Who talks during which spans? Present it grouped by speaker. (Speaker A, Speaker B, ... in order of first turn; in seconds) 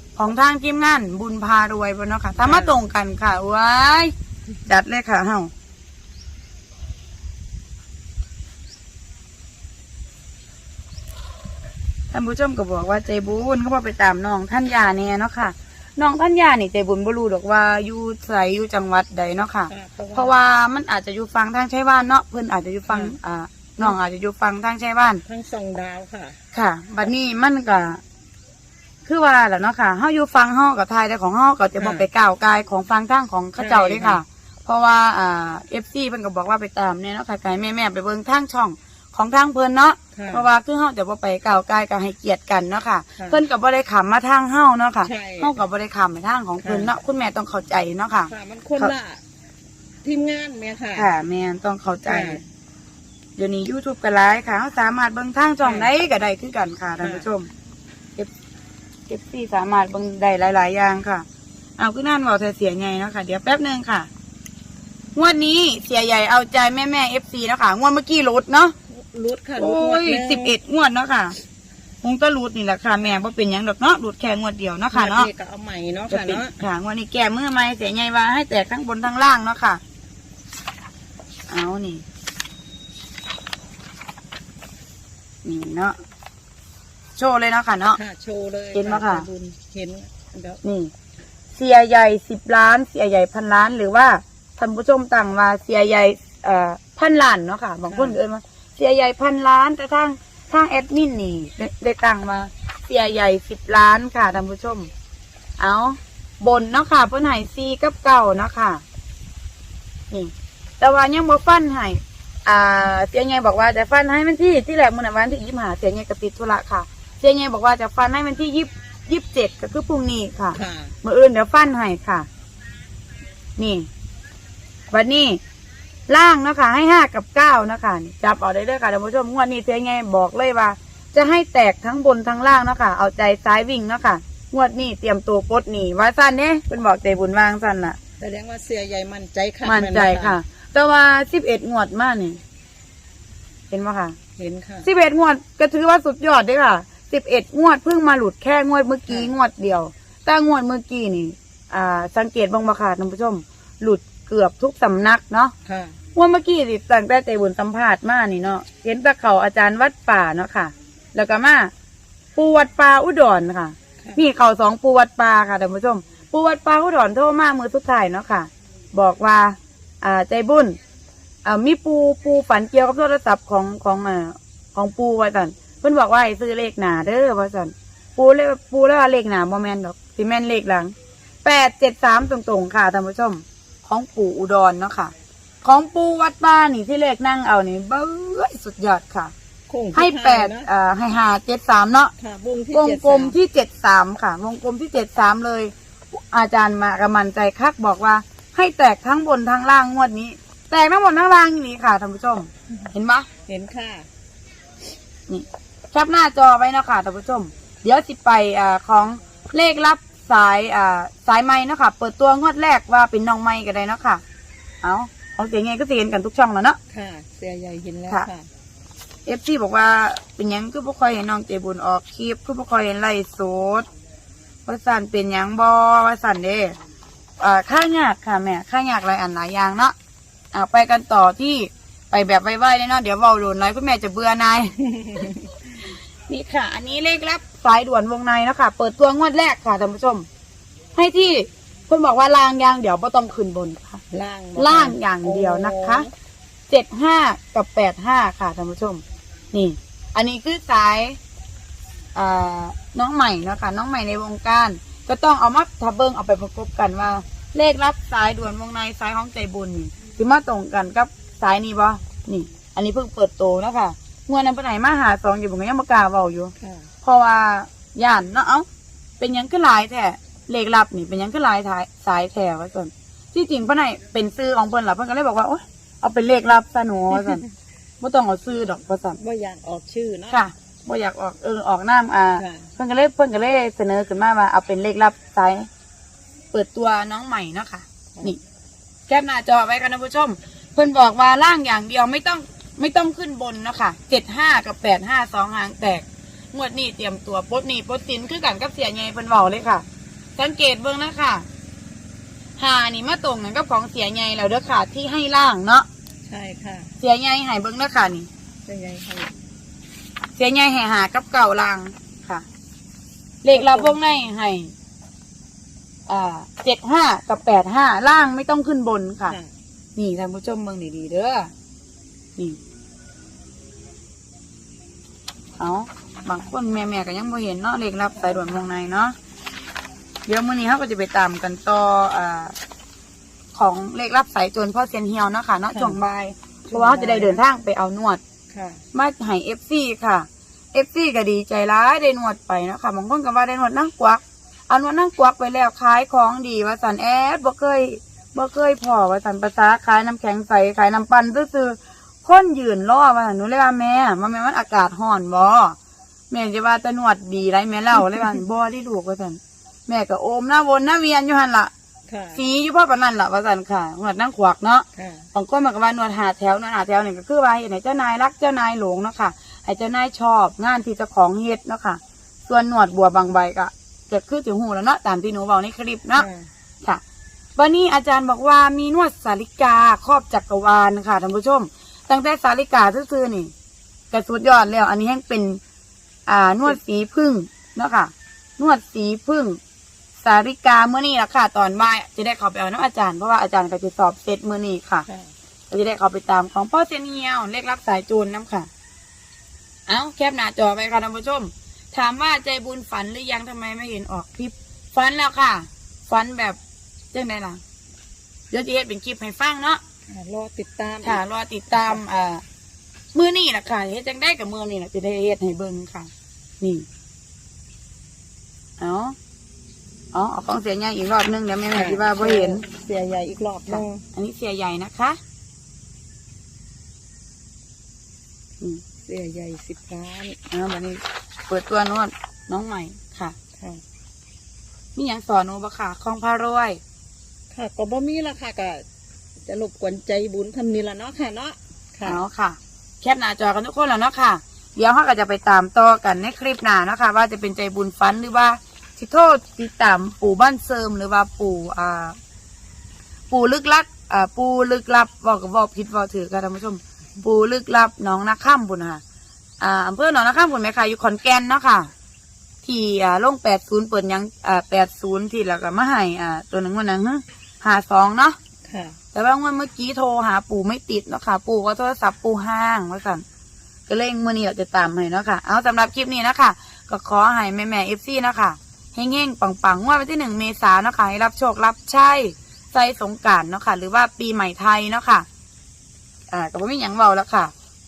Speaker A: 0.2-4.1, 4.7-5.5, 12.1-25.2, 26.5-28.0, 29.1-49.0, 51.0-52.4, 53.4-57.5, 59.1-61.3, 61.8-64.1, 65.2-68.8, 69.6-71.4, 72.0-75.3, 76.1-79.8, 81.5-82.0, 85.4-86.0, 87.2-88.0, 88.7-89.3, 90.6-90.9, 91.5-104.9, 105.6-108.8, 110.1-122.3, 123.6-123.9, 124.9-125.4, 126.1-138.0, 139.7-142.4, 143.7-144.2, 144.8-155.5, 156.2-161.7, 162.4-170.8, 171.4-185.1, 185.6-189.3, 189.9-192.1, 192.7-203.3, 205.3-214.2, 214.8-216.8, 219.3-223.9, 224.7-226.8, 227.4-229.9, 230.5-234.8, 236.3-240.3, 240.9-244.0, 244.6-246.1, 246.7-251.2, 252.2-268.7, 269.2-277.4, 278.0-279.2, 280.3-285.7, 286.5-288.4, 289.1-299.9, 300.4-301.5, 302.6-305.9, 307.0-308.3, 310.4-312.4, 313.4-314.7, 316.1-319.4, 320.0-321.5, 325.6-329.1, 330.3-332.6, 333.5-338.2, 338.9-355.8, 356.3-361.7, 362.4-376.3, 377.6-383.5, 384.1-385.6, 386.3-389.6, 390.2-395.1, 395.7-398.7, 399.9-406.6, 407.1-407.6, 408.5-409.8, 411.0-412.4, 413.1-416.9, 418.8-419.2, 420.1-422.6, 423.7-425.2, 430.5-433.4, 435.0-436.8, 442.0-452.2, 453.3-459.0, 459.6-461.9, 462.6-468.4, 469.1-473.2, 473.9-485.3, 486.3-487.5
Speaker B: 2.4-2.8, 19.7-20.3, 22.9-23.1, 25.2-26.4, 31.8-32.1, 33.6-34.2, 40.1-40.5, 45.0-45.5, 46.6-46.9, 48.3-49.2, 50.0-51.1, 52.1-52.4, 55.6-55.9, 57.0-57.3, 68.9-70.5, 74.9-76.6, 88.0-90.6, 97.9-98.2, 120.5-121.0, 138.2-140.4, 144.4-144.9, 155.7-156.0, 189.7-190.7, 192.2-193.4, 203.5-204.1, 216.9-218.5, 234.9-235.5, 244.1-246.1, 266.6-266.9, 279.2-280.4, 282.4-282.7, 306.3-306.9, 308.7-309.4, 313.5-314.0, 335.7-336.0, 336.7-337.4, 338.5-338.9, 362.1-362.4, 365.0-365.3, 376.2-376.5, 395.1-395.3, 410.1-411.2, 421.7-424.0, 429.0-430.4, 433.6-433.8, 437.5-438.9, 439.4-442.2, 468.7-469.0